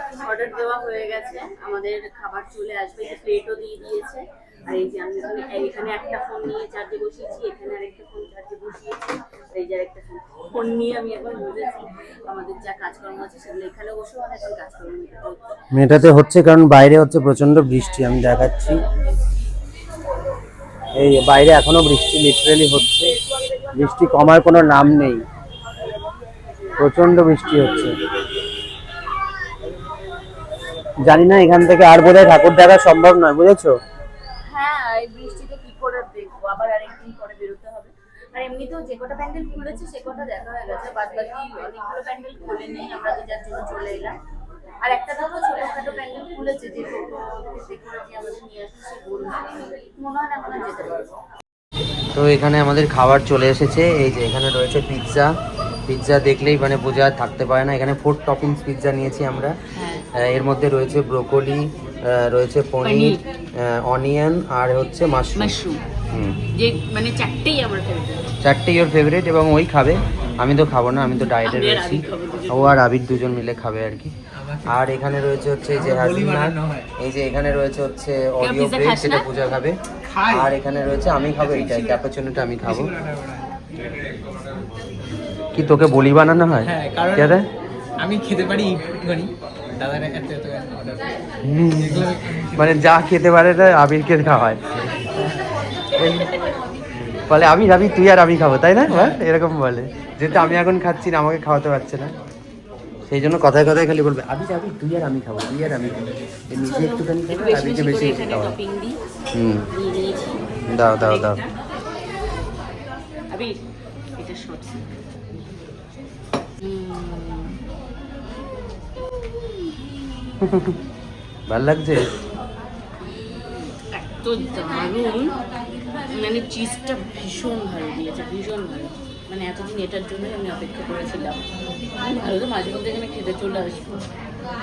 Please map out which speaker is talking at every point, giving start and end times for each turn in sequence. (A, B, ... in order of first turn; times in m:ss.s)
0:00.2-0:09.0 A
0:09.5-0:15.5 A
0:15.7-0:18.8 B
0:20.9-0:23.1 B
0:23.7-0:25.2 B
0:26.8-0:27.9 B
0:31.0-0:33.7 B
0:34.5-0:44.2 A
0:44.8-0:51.1 A
0:52.1-0:55.3 B
0:55.9-0:59.5 B
0:59.7-1:00.1 A
1:00.1-1:05.5 B
1:02.8-1:03.2 A
1:05.4-1:05.8 A
1:06.1-1:06.4 B
1:06.5-1:08.3 A
1:08.4-1:14.1 B
1:11.4-1:12.8 A
1:14.4-1:14.7 C
1:14.6-1:22.9 B
1:15.8-1:16.9 C
1:18.4-1:19.3 A
1:20.0-1:20.5 C
1:21.4-1:22.0 C
1:22.7-1:23.4 C
1:25.5-1:27.5 B
1:26.6-1:27.4 C
1:28.0-1:31.0 C
1:31.4-1:34.9 B
1:31.8-1:32.6 C
1:37.0-1:42.1 B
1:38.9-1:39.2 C
1:43.1-1:48.6 B
1:46.6-1:49.0 A
1:49.3-1:49.6 B
1:49.7-1:50.4 A
1:50.7-1:51.4 B
1:50.9-1:51.5 A
1:53.3-1:53.6 A
1:54.2-1:54.9 A
1:56.6-1:57.6 A
2:00.4-2:00.8 B
2:01.5-2:02.1 B
2:03.4-2:05.3 A
2:06.1-2:11.4 A
2:12.0-2:14.0 A